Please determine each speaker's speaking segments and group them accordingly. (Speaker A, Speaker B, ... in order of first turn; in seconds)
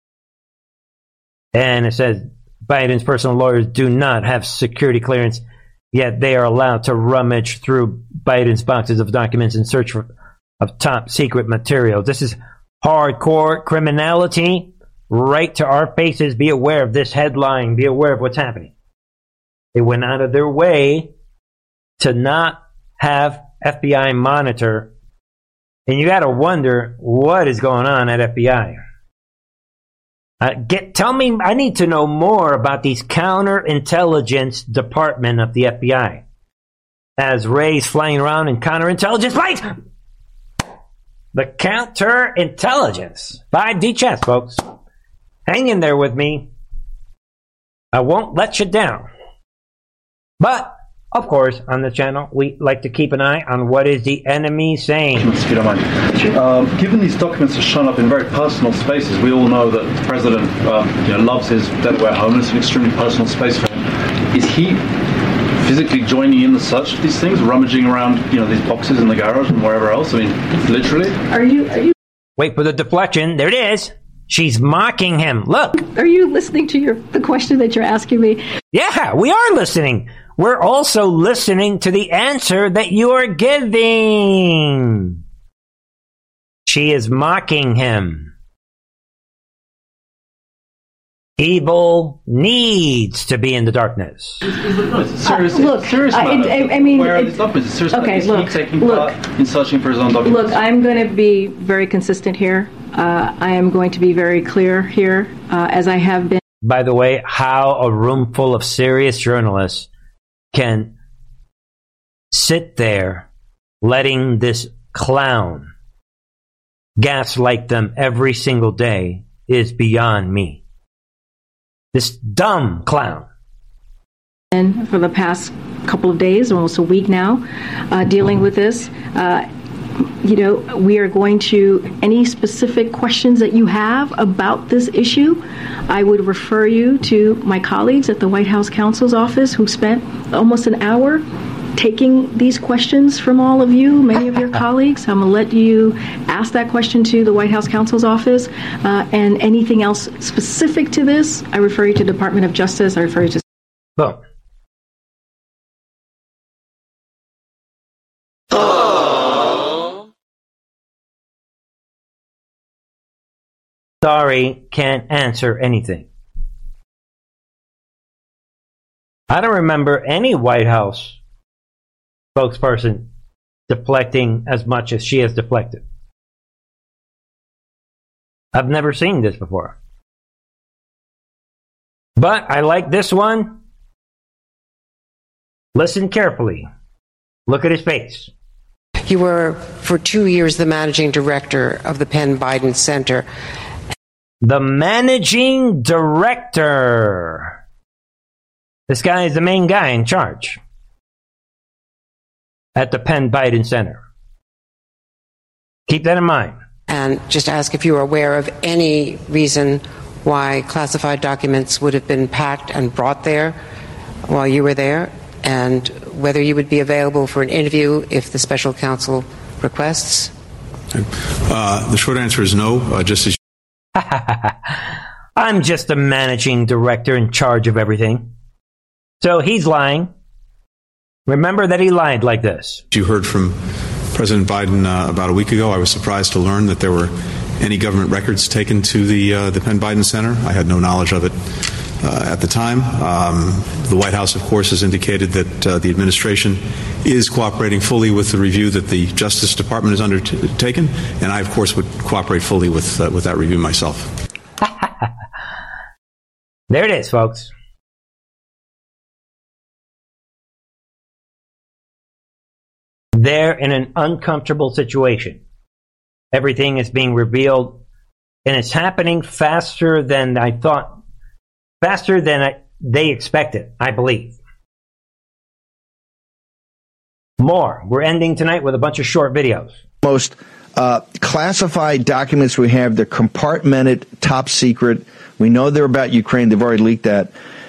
Speaker A: 1.5-10.1, 10.6-18.7, 19.8-21.1, 22.0-24.9, 25.9-28.8, 30.4-36.2, 37.2-39.7, 41.3-44.6, 45.5-46.5, 47.9-49.1, 50.4-55.3, 72.4-75.7, 78.7-85.2, 86.7-88.3, 91.4-94.4, 106.6-109.9, 110.5-110.9, 112.3-113.3, 113.8-115.7, 117.0-120.6, 121.9-123.3, 164.0-166.1, 169.3-171.2, 172.3-173.1, 173.7-175.8, 178.5-179.8, 182.2-183.6, 185.8-186.7, 187.5-188.3, 194.4-197.5, 198.9-200.6, 202.8-204.0, 205.9-206.6, 224.0-224.5, 225.4-228.3, 229.2-230.1, 231.3-232.8, 256.7-257.5, 263.1-265.4, 266.3-267.8, 268.4-271.0, 271.8-274.4, 277.4-279.8
Speaker B: 55.1-64.9, 65.6-71.2, 94.5-100.6
Speaker C: 71.3-71.9, 75.8-78.5, 95.2-99.2, 100.2-106.4, 124.5-129.5, 130.2-141.2, 141.8-153.4
Speaker D: 189.1-193.3, 206.9-213.6, 214.3-220.3
Speaker E: 221.5-223.3, 232.9-233.6, 234.1-241.3, 242.0-254.1
Speaker F: 280.0-287.3